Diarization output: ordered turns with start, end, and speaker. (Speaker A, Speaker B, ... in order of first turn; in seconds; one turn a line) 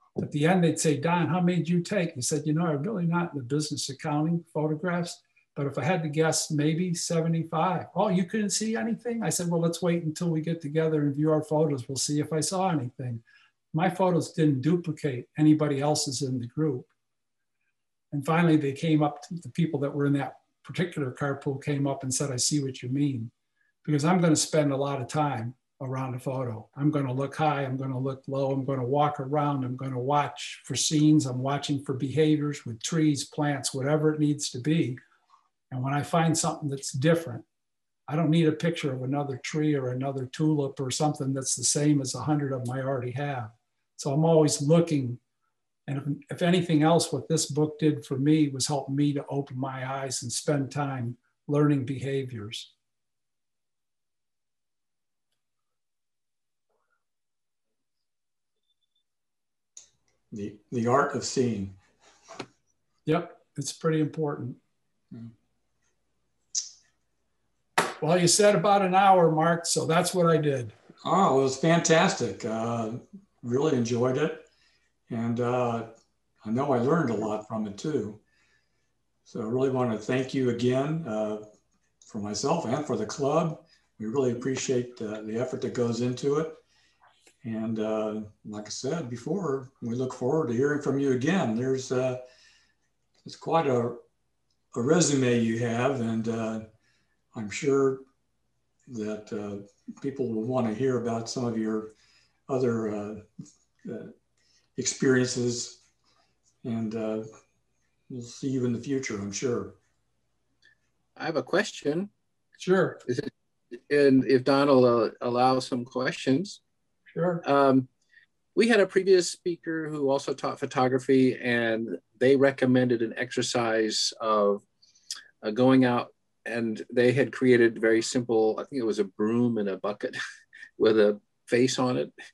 Speaker A: 0.2-13.2
Speaker A: 13.7-16.9
Speaker A: 18.1-23.3
Speaker A: 23.8-35.0
Speaker A: 35.7-37.5
Speaker A: 38.1-45.2
Speaker A: 45.9-52.7
Speaker B: 60.3-61.8
Speaker A: 63.1-64.6
Speaker A: 68.0-70.8
Speaker B: 71.0-74.5
Speaker B: 75.1-75.9
Speaker B: 76.4-78.2
Speaker B: 79.3-81.5
Speaker B: 82.1-86.6
Speaker B: 87.4-92.2
Speaker B: 93.2-94.0
Speaker B: 94.7-96.7
Speaker B: 97.3-98.0
Speaker B: 98.9-101.9
Speaker B: 102.5-103.3
Speaker B: 103.8-104.2
Speaker B: 104.8-105.8
Speaker B: 106.6-107.3
Speaker B: 108.1-109.8
Speaker C: 111.2-112.1
Speaker A: 112.6-113.0
Speaker C: 113.9-116.6
Speaker A: 117.1-117.4
Speaker C: 117.4-117.9
Speaker C: 118.5-124.6
Speaker C: 125.4-130.2
Speaker C: 130.8-132.1